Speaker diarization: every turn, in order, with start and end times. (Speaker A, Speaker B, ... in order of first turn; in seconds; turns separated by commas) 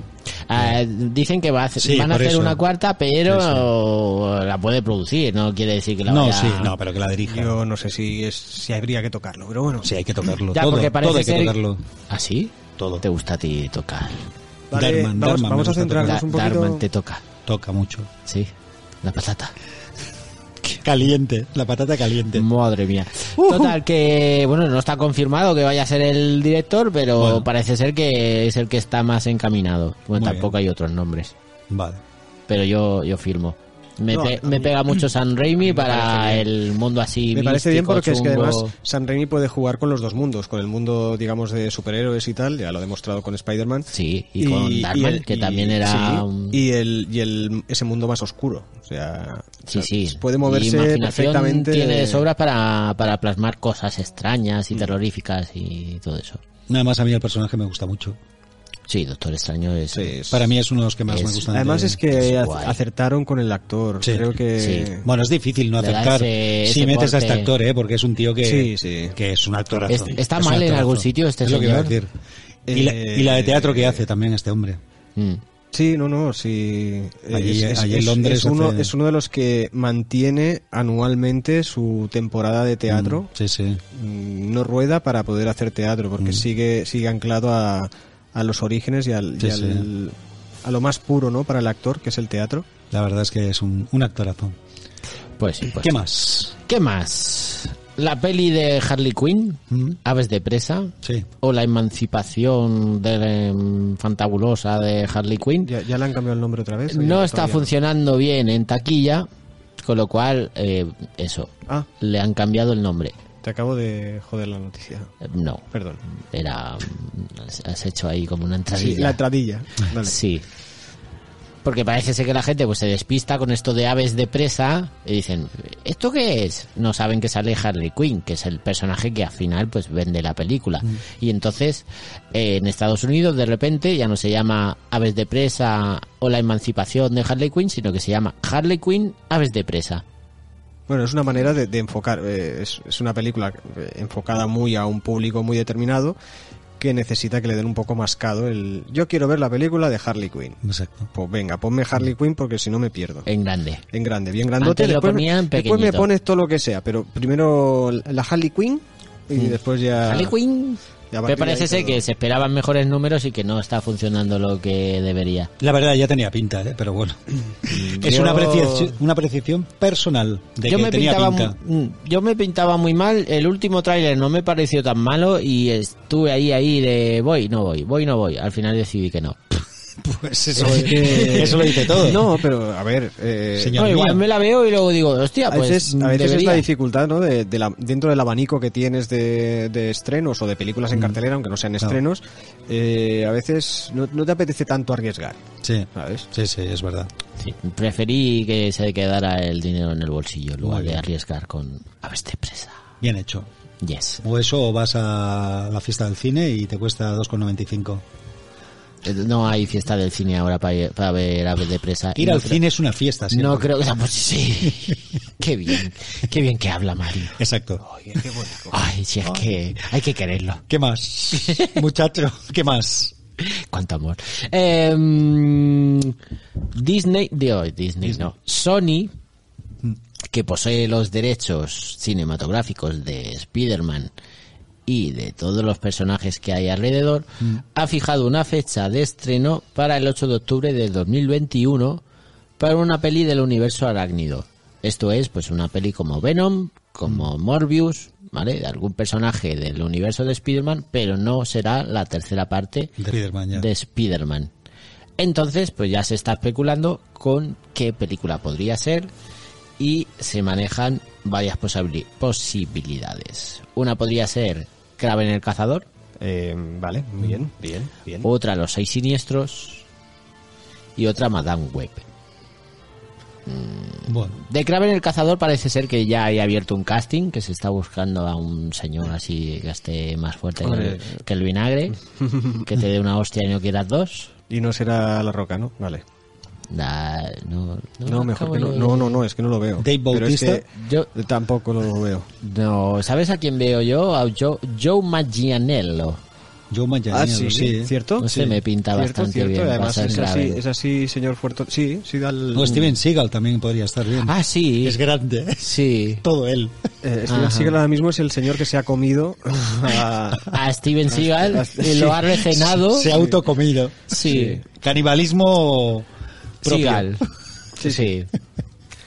Speaker A: 0.5-6.8, Speaker B: 1.8-2.6, Speaker B: 3.3-3.7, Speaker B: 6.1-7.6, Speaker C: 7.3-9.9, Speaker B: 9.8-11.8, Speaker A: 10.5-11.6, Speaker A: 12.1-14.3, Speaker B: 12.8-13.0, Speaker C: 14.7-16.9, Speaker B: 14.7-16.2, Speaker A: 16.0-17.2, Speaker B: 17.5-18.1, Speaker A: 18.3-18.5, Speaker A: 19.0-19.6, Speaker B: 20.8-22.5, Speaker A: 22.3-31.3, Speaker B: 23.4-23.8, Speaker B: 27.2-27.5, Speaker B: 30.1-30.5, Speaker B: 31.7-32.0, Speaker A: 32.5-38.7, Speaker C: 34.1-34.8, Speaker C: 35.6-36.5, Speaker C: 37.3-52.3, Speaker A: 43.9-46.6, Speaker A: 49.7-56.4, Speaker B: 56.7-58.2, Speaker A: 58.9-60.1, Speaker C: 59.9-60.5, Speaker B: 60.3-62.0, Speaker A: 61.1-61.5, Speaker C: 61.5-65.1, Speaker A: 62.1-62.8, Speaker B: 64.0-64.3, Speaker A: 64.6-64.9, Speaker B: 65.0-72.1, Speaker A: 65.8-67.5, Speaker C: 68.4-69.2, Speaker A: 69.9-72.0, Speaker C: 72.7-74.0, Speaker B: 72.7-74.8, Speaker A: 75.2-75.4, Speaker C: 75.7-83.3, Speaker B: 77.3-78.9, Speaker B: 82.9-83.8, Speaker C: 83.9-92.7, Speaker B: 86.2-86.5, Speaker B: 89.4-89.9, Speaker B: 92.9-94.5, Speaker A: 95.4-96.0, Speaker B: 95.8-96.5, Speaker A: 96.5-105.7, Speaker B: 99.7-100.0, Speaker C: 105.6-107.7, Speaker A: 106.9-109.3, Speaker A: 109.8-113.1, Speaker C: 113.4-115.1, Speaker A: 115.2-115.6, Speaker C: 115.7-116.0, Speaker A: 116.2-119.2, Speaker C: 118.7-120.2, Speaker A: 120.0-120.4, Speaker A: 121.6-140.0, Speaker C: 140.9-146.2, Speaker C: 146.8-153.3, Speaker B: 150.6-151.1, Speaker A: 153.3-153.8, Speaker C: 153.9-160.3, Speaker A: 154.6-156.1, Speaker A: 159.4-165.5, Speaker C: 161.1-162.1, Speaker B: 165.6-171.6, Speaker A: 167.7-169.0, Speaker A: 170.6-179.6, Speaker B: 180.0-182.2, Speaker C: 180.6-183.8, Speaker A: 180.7-182.1, Speaker B: 183.6-184.2, Speaker A: 183.8-186.7, Speaker C: 185.5-195.4, Speaker B: 195.6-197.1, Speaker C: 195.9-196.3, Speaker A: 197.4-202.8, Speaker B: 200.6-201.0, Speaker B: 203.0-203.5, Speaker A: 203.8-204.2, Speaker B: 204.2-208.0, Speaker A: 209.0-212.6, Speaker B: 212.2-213.7, Speaker A: 213.3-217.4, Speaker B: 217.4-217.8, Speaker C: 217.9-218.8, Speaker A: 218.7-220.6, Speaker B: 220.7-223.1, Speaker A: 221.4-221.8, Speaker A: 223.4-226.2, Speaker A: 226.7-229.1, Speaker A: 230.3-234.1, Speaker A: 234.9-242.0, Speaker A: 242.6-252.9, Speaker B: 253.0-253.7, Speaker A: 253.5-254.5, Speaker A: 255.2-259.1, Speaker A: 259.8-265.9, Speaker C: 266.2-268.3, Speaker A: 268.2-269.9, Speaker A: 271.0-272.1, Speaker A: 273.4-282.0, Speaker B: 274.1-274.4, Speaker C: 280.6-281.2, Speaker C: 282.2-282.6, Speaker A: 282.6-284.3, Speaker C: 284.5-286.0, Speaker A: 286.7-289.2, Speaker C: 288.1-292.3, Speaker B: 289.8-290.6, Speaker A: 290.7-291.1, Speaker A: 292.4-296.2, Speaker B: 296.7-298.6, Speaker C: 297.1-298.4, Speaker A: 298.2-300.6, Speaker C: 298.9-302.8, Speaker B: 302.5-306.8, Speaker A: 304.2-305.0, Speaker A: 305.6-306.2, Speaker C: 307.0-310.6, Speaker A: 307.3-307.7, Speaker A: 310.5-313.1, Speaker C: 311.1-312.2, Speaker B: 311.9-314.1, Speaker C: 313.1-313.4, Speaker A: 314.1-314.6, Speaker C: 314.2-314.6, Speaker B: 314.7-316.1, Speaker B: 316.6-317.1, Speaker A: 316.6-317.2, Speaker C: 317.8-318.1, Speaker A: 317.8-318.3